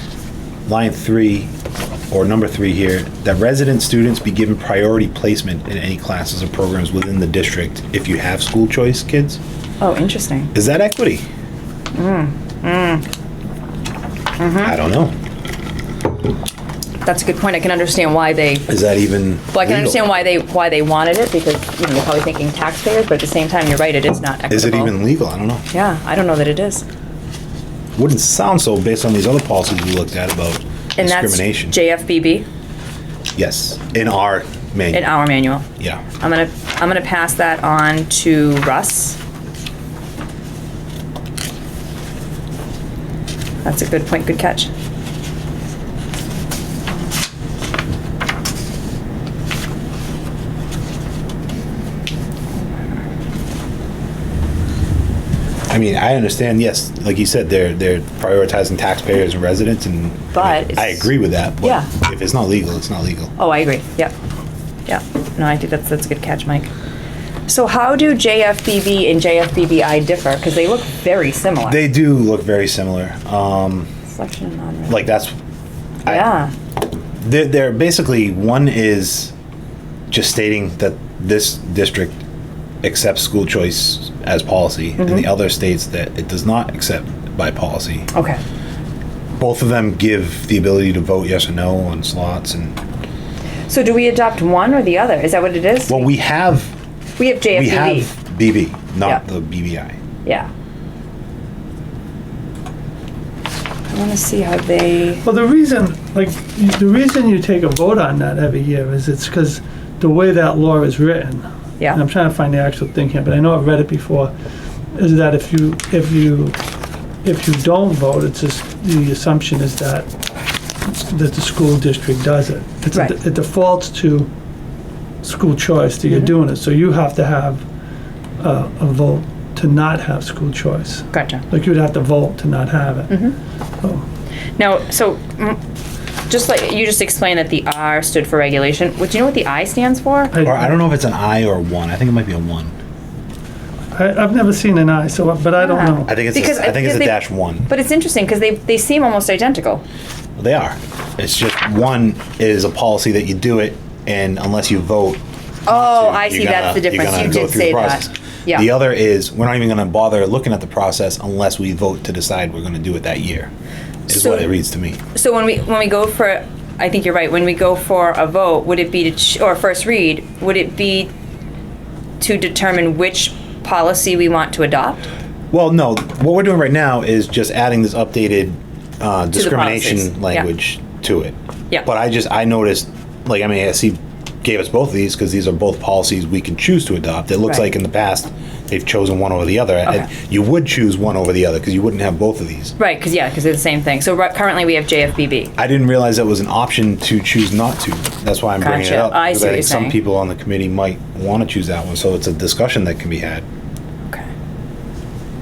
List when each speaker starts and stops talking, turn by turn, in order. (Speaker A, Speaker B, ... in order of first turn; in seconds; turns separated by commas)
Speaker A: 0.7-1.5, Speaker A: 2.1-9.4, Speaker B: 9.8-10.5, Speaker A: 10.5-11.2, Speaker B: 11.9-13.0, Speaker B: 14.4-14.7, Speaker A: 14.6-15.1, Speaker B: 17.0-18.7, Speaker A: 18.7-20.0, Speaker B: 19.5-24.9, Speaker A: 24.5-25.6, Speaker B: 25.7-26.8, Speaker A: 28.0-31.8, Speaker B: 31.0-32.5, Speaker A: 33.4-35.1, Speaker B: 34.9-35.6, Speaker A: 35.8-36.0, Speaker B: 36.2-39.2, Speaker B: 43.6-44.7, Speaker B: 52.6-53.0, Speaker A: 55.7-63.3, Speaker B: 60.3-61.1, Speaker B: 61.6-61.9, Speaker B: 63.4-64.1, Speaker B: 64.8-66.7, Speaker B: 67.5-71.8, Speaker A: 71.6-73.9, Speaker B: 74.1-75.0, Speaker A: 74.9-75.4, Speaker A: 76.0-76.3, Speaker B: 76.1-76.5, Speaker A: 77.2-79.3, Speaker A: 80.1-82.2, Speaker A: 82.8-88.1, Speaker B: 85.0-85.3, Speaker B: 88.1-88.4, Speaker A: 89.4-92.8, Speaker B: 93.7-96.1, Speaker A: 95.9-96.7, Speaker B: 97.2-98.1, Speaker A: 97.5-100.0, Speaker B: 103.9-105.2, Speaker C: 105.2-114.3, Speaker C: 114.9-116.6, Speaker C: 117.2-120.1, Speaker C: 120.8-124.3, Speaker C: 125.2-127.6, Speaker B: 126.1-126.3, Speaker C: 128.4-133.2, Speaker B: 131.1-131.4, Speaker B: 133.1-133.3, Speaker B: 134.6-135.6, Speaker B: 136.3-140.3, Speaker C: 140.3-140.7, Speaker A: 140.4-142.7, Speaker C: 143.9-146.1, Speaker B: 145.6-149.8, Speaker A: 146.1-147.7, Speaker A: 150.4-163.5, Speaker B: 155.7-158.7, Speaker A: 164.1-165.0, Speaker B: 164.1-164.5, Speaker B: 165.1-171.1, Speaker B: 172.2-175.0, Speaker A: 175.5-192.7, Speaker B: 179.3-180.4, Speaker B: 192.8-195.5, Speaker A: 195.6-203.4, Speaker B: 198.6-200.0